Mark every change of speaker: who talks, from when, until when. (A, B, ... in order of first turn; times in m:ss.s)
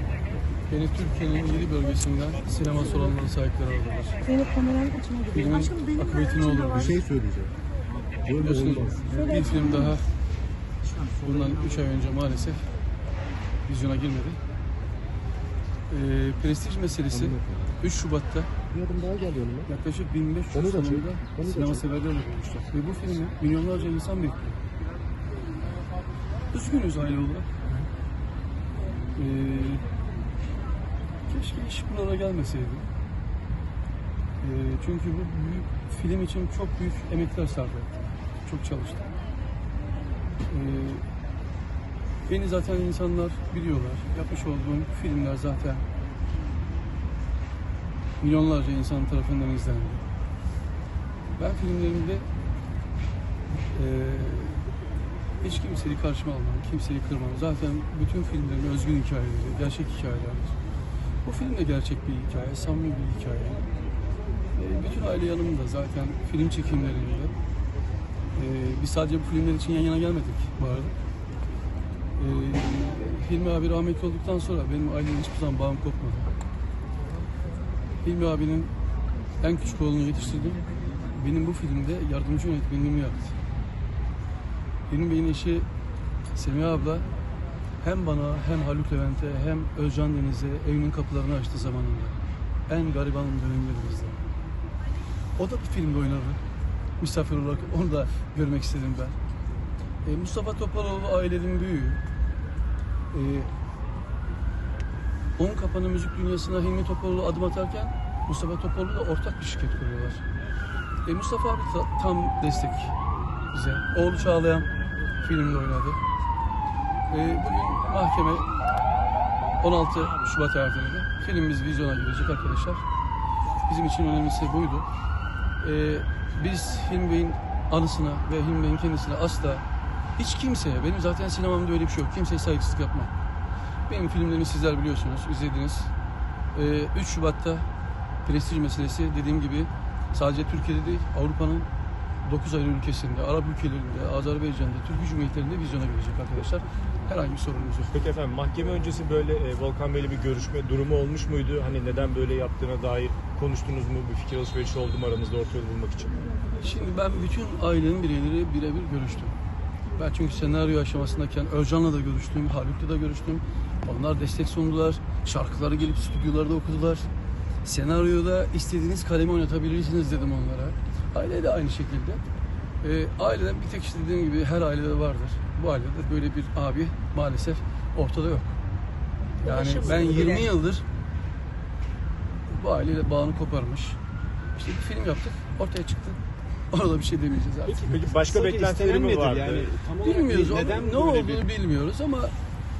0:00.7-0:04.2 A
0:04.2-0:07.0 B
0:05.3-0:07.1 A
0:06.9-0:07.5 C
0:08.2-0:09.1 C
0:08.4-0:10.1 A
0:09.1-0:09.7 B
0:11.2-0:12.7 A
0:13.7-0:14.4 A
0:15.9-0:18.5 A
0:17.1-0:17.6 C
0:18.7-0:19.7 C
0:19.7-0:24.6 A
0:20.5-0:21.8 C
0:26.5-0:27.5 A
0:29.1-0:29.9 A
0:31.3-0:32.9 A
0:34.4-0:39.1 A
0:40.5-0:41.0 A
0:42.2-0:45.9 A
0:48.2-0:50.0 A
0:51.4-0:52.3 A
0:53.7-0:54.7 A
0:55.4-1:00.6 A
1:01.2-1:03.7 A
1:04.6-1:07.3 A
1:08.4-1:11.0 A
1:12.2-1:16.3 A
1:18.0-1:18.7 A
1:19.4-1:23.3 A
1:24.9-1:25.7 A
1:26.3-1:27.1 A
1:27.8-1:34.2 A
1:35.4-1:36.4 A
1:37.0-1:39.2 A
1:40.0-1:42.0 A
1:43.1-1:43.5 A
1:45.4-1:50.2 A
1:51.0-1:53.0 A
1:53.5-1:56.0 A
1:57.1-1:58.5 A
1:59.6-2:02.8 A
2:03.7-2:04.9 A
2:05.6-2:09.6 A
2:10.2-2:13.1 A
2:13.9-2:15.9 A
2:16.5-2:17.7 A
2:18.2-2:21.7 A
2:22.2-2:28.0 A
2:27.9-2:36.2 D
2:36.6-2:39.4 A
2:40.0-2:47.1 A
2:47.6-2:52.2 A
2:52.8-2:58.6 A
2:59.4-3:00.8 A
2:59.8-3:00.4 E
3:02.5-3:04.0 A
3:04.6-3:06.2 A
3:06.7-3:07.8 A
3:07.7-3:09.8 D
3:07.9-3:11.5 E
3:10.0-3:12.3 A